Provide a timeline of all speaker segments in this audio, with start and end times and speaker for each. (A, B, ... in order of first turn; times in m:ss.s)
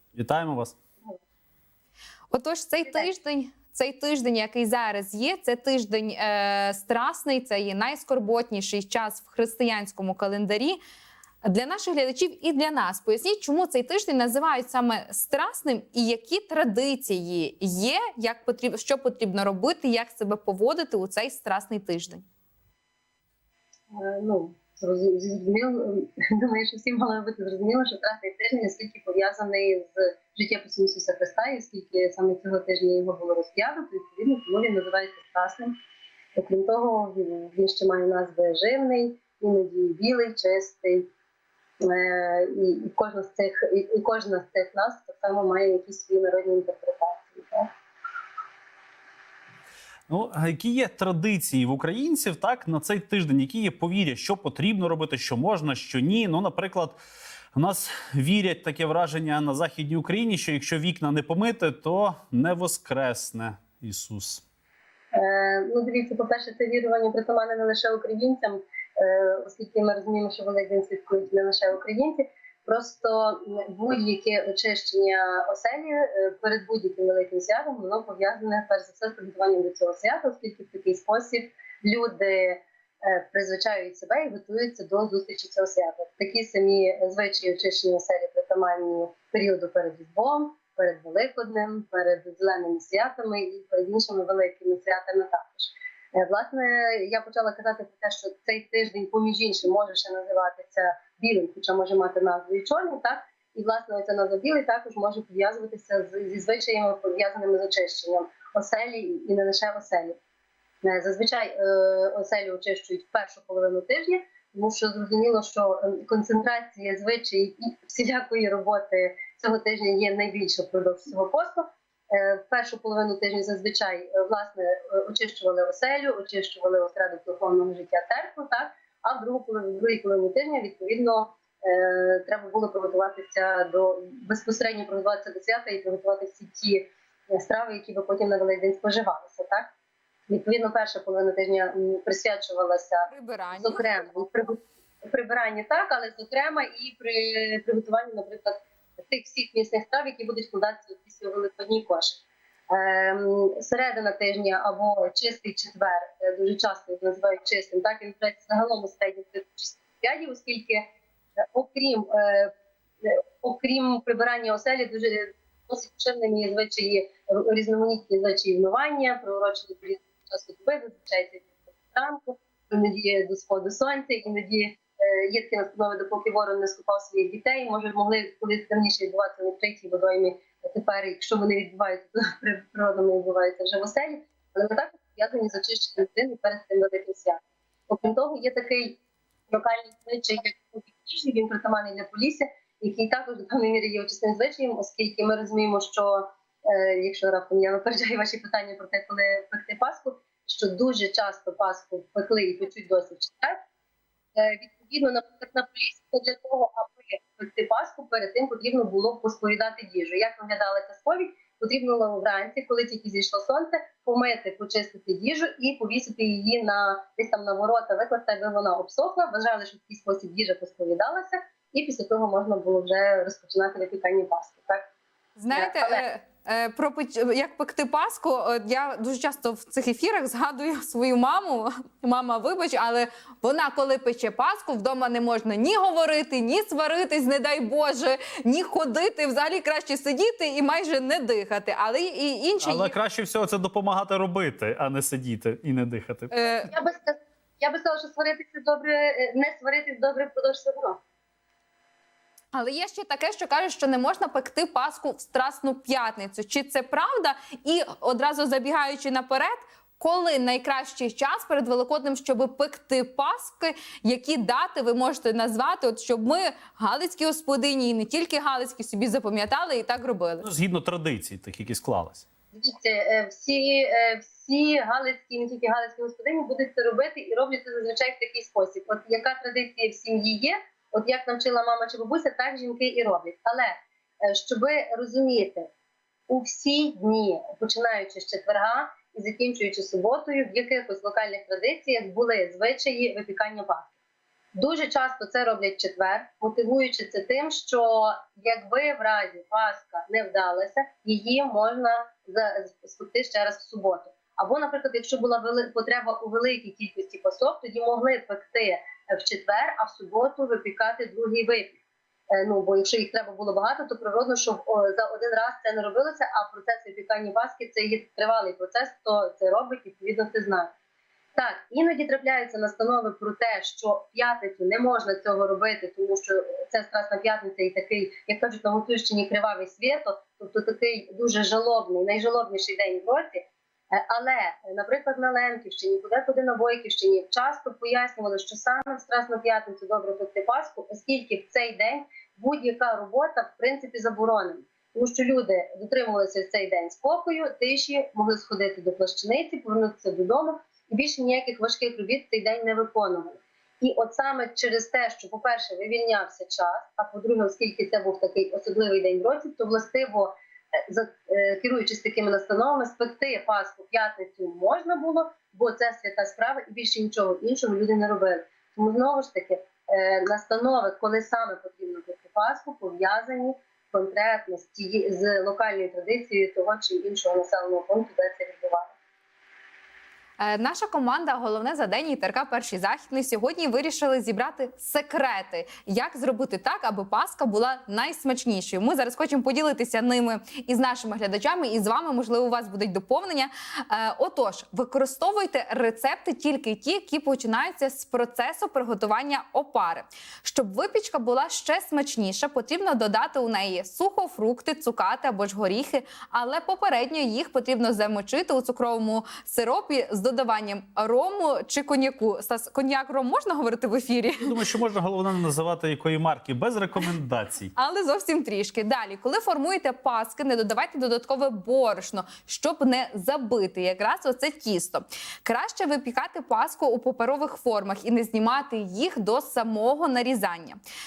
0:00.2-0:00.8 A
0:02.3-0:10.8 B
0:11.4-0:22.2 B
0:23.9-0:35.7 C
0:36.4-0:41.1 C
0:41.8-0:47.7 C
0:50.1-0:57.0 A
0:57.6-1:04.4 A
1:05.1-1:50.2 C
1:50.8-2:19.7 C
2:20.3-2:40.9 C
2:23.1-2:23.9 B
2:41.5-2:42.5 C
2:43.0-3:09.0 C
3:09.5-3:23.6 C
3:24.4-3:44.8 C
3:45.4-4:02.9 B
3:45.5-3:46.0 C
4:02.6-4:06.3 A
4:06.3-4:06.7 B
4:06.6-4:11.0 C
4:12.5-4:30.5 B
4:30.4-4:32.2 A
4:32.5-4:45.7 C
4:46.3-4:53.9 C
4:54.6-5:11.8 C
5:12.3-5:20.7 C
5:21.4-6:18.9 C
6:20.4-6:54.5 B
6:54.4-6:57.7 A
6:57.8-7:10.8 B